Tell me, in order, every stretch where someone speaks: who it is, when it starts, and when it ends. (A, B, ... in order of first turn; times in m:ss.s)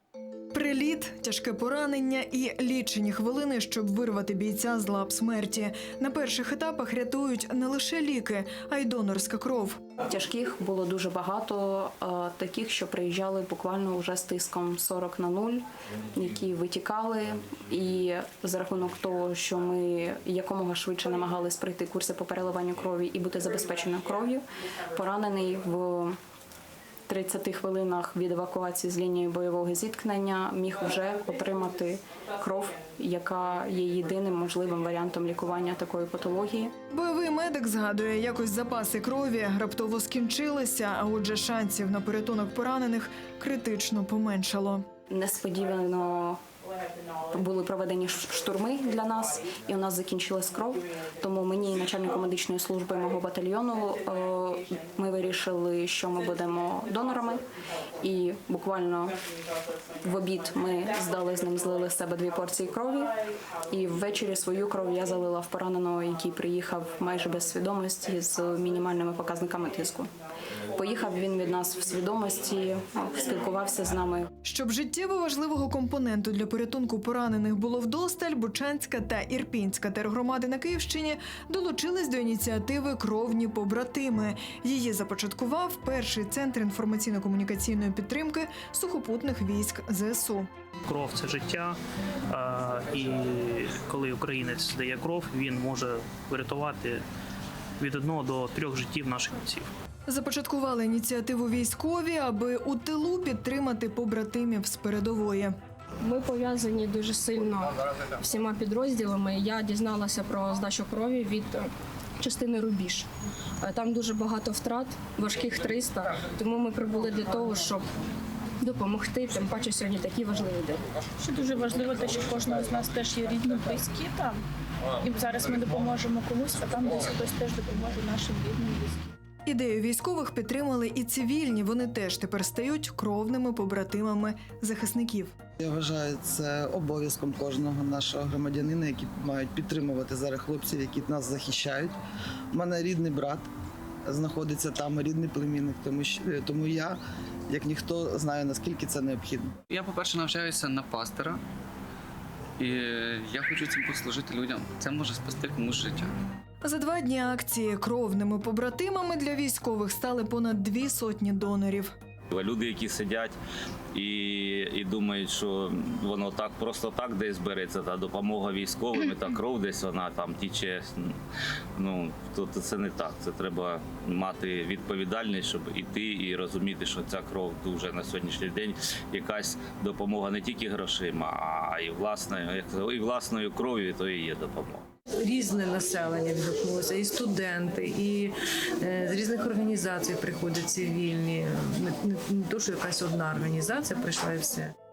0:00.5-0:09.8 A
0:10.0-0:26.2 B
0:27.1-0:36.7 B
0:36.9-0:44.8 A
0:45.1-0:46.4 B
0:47.3-0:57.4 B
0:58.0-0:59.2 B
1:00.0-1:03.1 B
1:03.7-1:10.1 B
1:10.7-1:14.3 B
1:14.4-1:30.5 A
1:30.8-1:31.8 C
1:32.3-1:37.0 C
1:37.8-1:39.7 C
1:40.1-1:45.5 A
1:46.0-1:53.1 D
1:53.6-1:57.8 D
1:58.6-2:00.8 D
2:01.2-2:04.4 E
2:05.0-2:09.1 E
2:09.4-2:15.3 A
2:15.6-2:22.0 F
2:22.5-2:23.5 F
2:24.0-2:27.0 F
2:27.5-2:29.5 F
2:29.7-2:31.4 G
2:32.6-2:36.1 G
2:36.6-2:41.9 A
2:42.3-2:43.3 H
2:43.9-2:51.1 H
2:51.8-3:04.8 H
3:05.2-3:14.7 I